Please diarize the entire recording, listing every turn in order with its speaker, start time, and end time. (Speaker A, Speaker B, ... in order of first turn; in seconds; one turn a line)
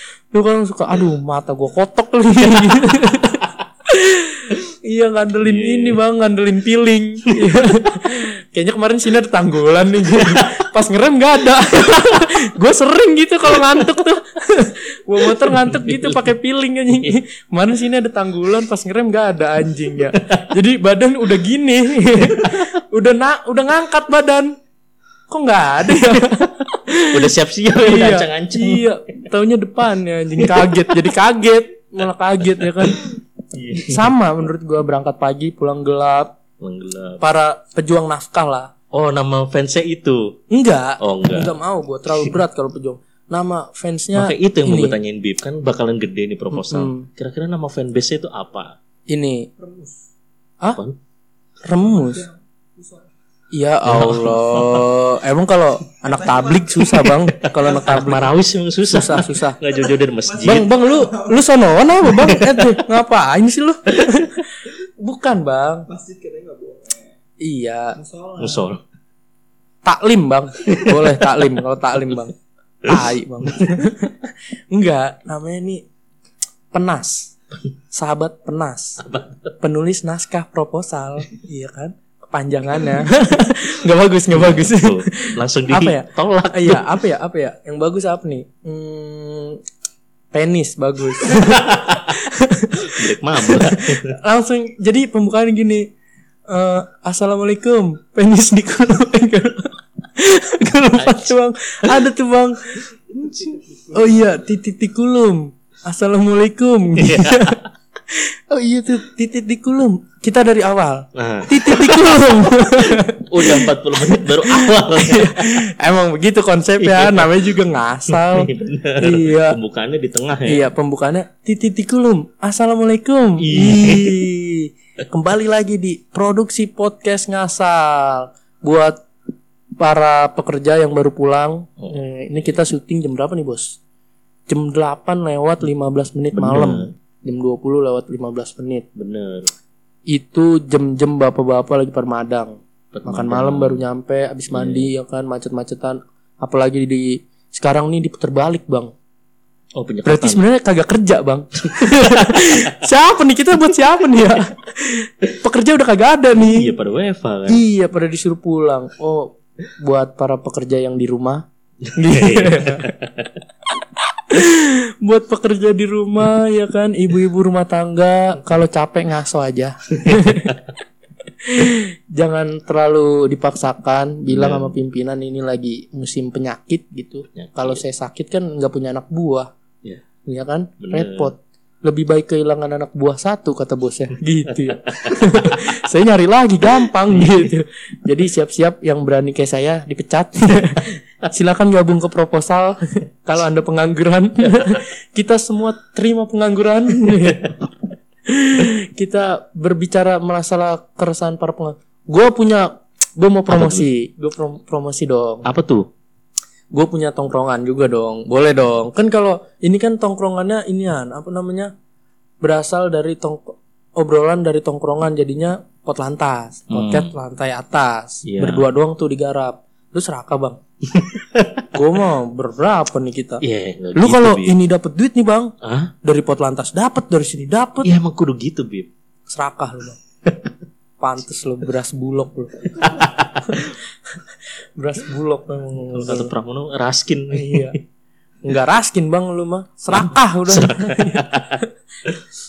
Speaker A: 0.3-24.6
Speaker B: 5.4-6.0
Speaker B: 10.2-10.6
Speaker B: 15.3-16.3
Speaker B: 20.2-20.5
Speaker B: 22.3-22.7
Speaker A: 25.3-27.3
Speaker B: 25.9-26.4
Speaker B: 27.1-28.9
Speaker A: 27.8-33.1
Speaker B: 30.4-31.1
Speaker B: 32.4-34.1
Speaker A: 33.7-36.4
Speaker B: 36.6-37.2
Speaker A: 37.2-38.7
Speaker B: 38.9-40.4
Speaker A: 40.5-45.0
Speaker B: 41.0-41.5
Speaker B: 44.1-48.8
Speaker A: 46.5-47.1
Speaker A: 49.1-49.5
Speaker C: 49.6-50.0
Speaker A: 51.6-52.3
Speaker C: 51.7-53.1
Speaker A: 53.5-58.3
Speaker B: 53.9-54.9
Speaker C: 56.0-58.3
Speaker B: 57.5-60.7
Speaker A: 58.9-59.6
Speaker C: 59.7-61.9
Speaker A: 60.4-65.9
Speaker B: 62.0-62.8
Speaker C: 65.9-67.2
Speaker A: 67.4-68.0
Speaker C: 68.0-68.7
Speaker B: 68.4-68.8
Speaker A: 69.8-75.8
Speaker B: 70.7-71.2
Speaker A: 76.7-77.3
Speaker A: 77.9-79.1
Speaker B: 79.0-79.5
Speaker A: 79.6-89.6
Speaker B: 84.3-87.0
Speaker A: 90.3-95.9
Speaker B: 91.3-92.2
Speaker B: 92.7-94.1
Speaker A: 96.5-102.8
Speaker B: 101.0-101.3
Speaker B: 103.1-103.6
Speaker C: 103.7-104.1
Speaker A: 103.9-119.6
Speaker B: 107.0-107.6
Speaker B: 111.1-115.6
Speaker B: 116.8-120.7
Speaker A: 120.5-129.0
Speaker B: 123.4-124.2
Speaker A: 129.8-133.8
Speaker B: 131.8-132.6
Speaker A: 134.5-138.9
Speaker B: 136.3-136.9
Speaker B: 138.9-139.5
Speaker A: 140.1-148.9
Speaker B: 142.9-143.8
Speaker B: 144.5-144.9
Speaker B: 149.8-150.5
Speaker A: 150.1-156.7
Speaker B: 151.7-152.7
Speaker B: 156.4-157.6
Speaker A: 157.5-162.9
Speaker B: 161.9-163.3
Speaker A: 164.2-170.6
Speaker B: 170.1-170.5
Speaker A: 171.4-179.5
Speaker B: 174.3-174.8
Speaker B: 177.3-177.8
Speaker A: 180.2-197.6
Speaker B: 180.8-181.3
Speaker B: 184.6-185.7
Speaker B: 187.1-187.5
Speaker A: 198.3-205.5
Speaker B: 203.5-203.9
Speaker B: 205.4-205.9
Speaker A: 206.7-211.7
Speaker A: 212.4-220.6
Speaker B: 216.7-217.1
Speaker B: 218.2-218.7
Speaker B: 220.9-221.7
Speaker A: 221.7-223.4
Speaker B: 223.4-224.6
Speaker A: 224.0-228.0
Speaker B: 225.6-225.9
Speaker B: 227.8-228.9
Speaker A: 229.3-230.0
Speaker A: 231.0-236.3
Speaker B: 232.7-233.7
Speaker B: 235.9-237.8
Speaker A: 237.3-237.8
Speaker A: 238.4-241.7
Speaker B: 239.9-242.2